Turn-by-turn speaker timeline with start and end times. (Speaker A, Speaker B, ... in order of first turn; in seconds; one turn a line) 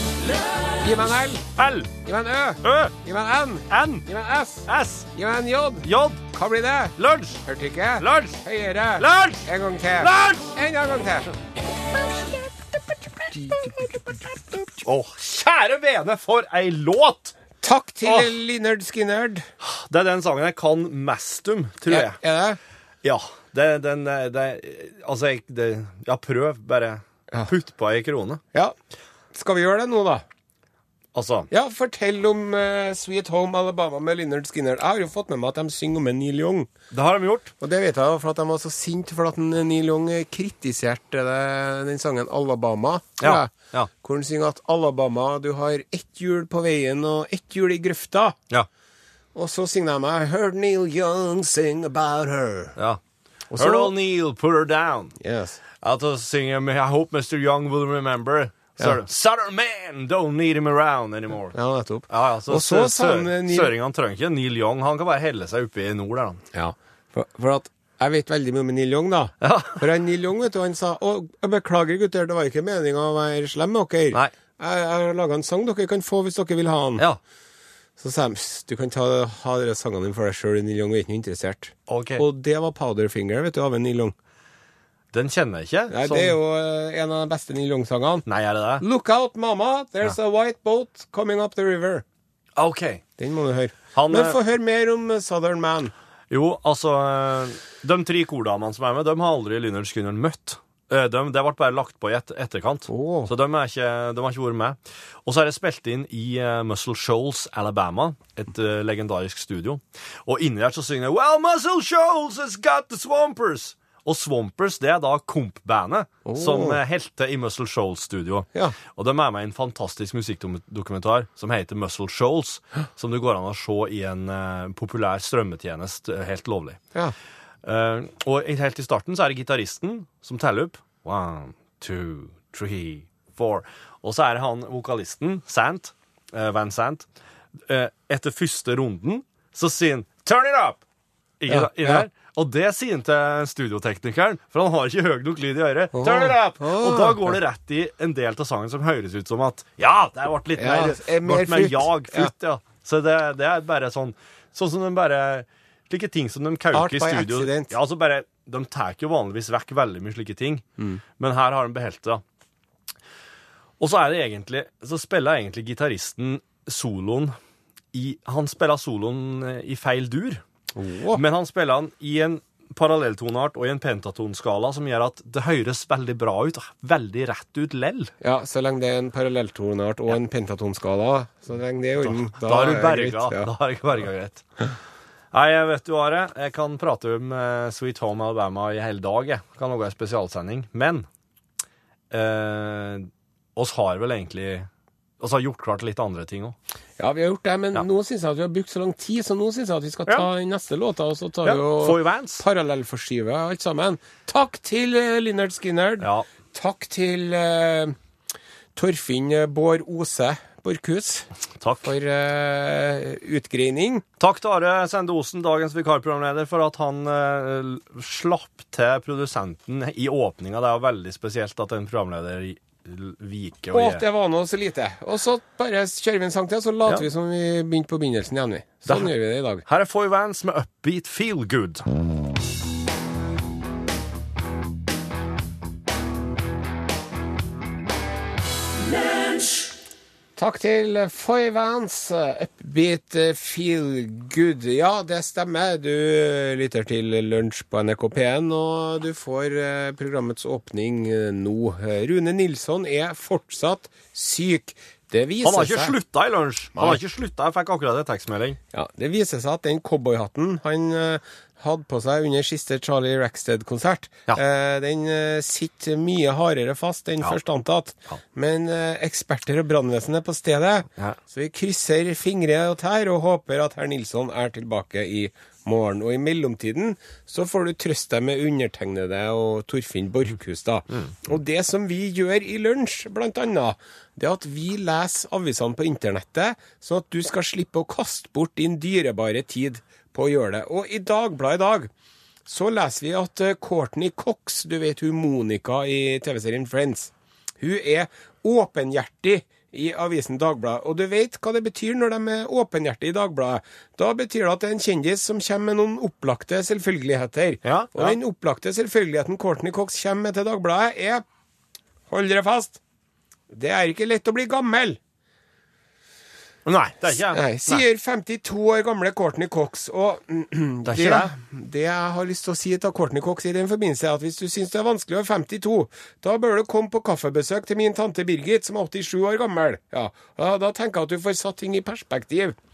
Speaker A: 0.8-1.5
Speaker B: 1.6-1.9
Speaker A: 2.0-11.3
Speaker B: 2.6-3.0
Speaker B: 3.7-4.1
Speaker B: 4.7-5.1
Speaker B: 5.8-6.2
Speaker B: 7.0-7.4
Speaker B: 8.0-8.4
Speaker B: 9.0-9.5
Speaker B: 10.0-10.5
Speaker A: 13.3-14.8
Speaker B: 14.8-17.4
Speaker A: 17.6-19.5
Speaker B: 19.6-22.2
Speaker A: 21.9-22.6
Speaker B: 23.0-28.4
Speaker A: 29.3-30.2
Speaker B: 31.1-31.5
Speaker A: 31.5-36.7
Speaker B: 36.9-37.5
Speaker A: 37.6-48.4
Speaker B: 43.2-43.9
Speaker A: 49.4-52.8
Speaker A: 53.5-53.9
Speaker B: 53.5-55.2
Speaker A: 55.2-55.6
Speaker B: 55.8-61.6
Speaker A: 61.5-63.7
Speaker B: 62.1-66.4
Speaker A: 66.5-77.0
Speaker B: 69.4-69.8
Speaker A: 78.0-84.2
Speaker B: 81.9-82.2
Speaker B: 85.1-86.4
Speaker A: 85.9-88.3
Speaker B: 88.3-88.8
Speaker A: 88.8-92.0
Speaker B: 92.6-93.0
Speaker A: 93.2-95.9
Speaker B: 93.9-94.4
Speaker B: 96.3-126.8
Speaker A: 102.9-103.3
Speaker A: 116.2-116.8
Speaker B: 127.6-137.1
Speaker B: 137.7-140.8
Speaker B: 141.4-160.7
Speaker A: 141.5-142.1
Speaker A: 145.9-147.4
Speaker A: 150.6-152.3
Speaker A: 156.7-157.7
Speaker B: 161.2-162.2
Speaker B: 163.8-167.4
Speaker B: 167.9-170.4
Speaker A: 170.8-171.2
Speaker B: 171.1-178.1
Speaker A: 178.2-183.5
Speaker B: 182.0-184.4
Speaker B: 185.3-191.1
Speaker B: 192.1-194.7
Speaker B: 195.2-196.6
Speaker A: 197.0-207.9
Speaker B: 201.4-202.4
Speaker B: 206.0-206.3
Speaker A: 208.8-211.3
Speaker B: 211.6-211.9
Speaker A: 211.8-214.0
Speaker B: 214.2-224.0
Speaker A: 223.7-229.7
Speaker B: 228.9-229.1
Speaker B: 229.7-231.8
Speaker A: 240.4-255.9
Speaker B: 255.4-258.6
Speaker A: 256.8-257.0
Speaker A: 258.7-291.9
Speaker A: 292.5-311.2
Speaker B: 307.6-308.2
Speaker A: 312.1-312.8
Speaker A: 313.5-315.0
Speaker B: 316.7-317.8
Speaker A: 317.1-332.6
Speaker B: 320.9-321.3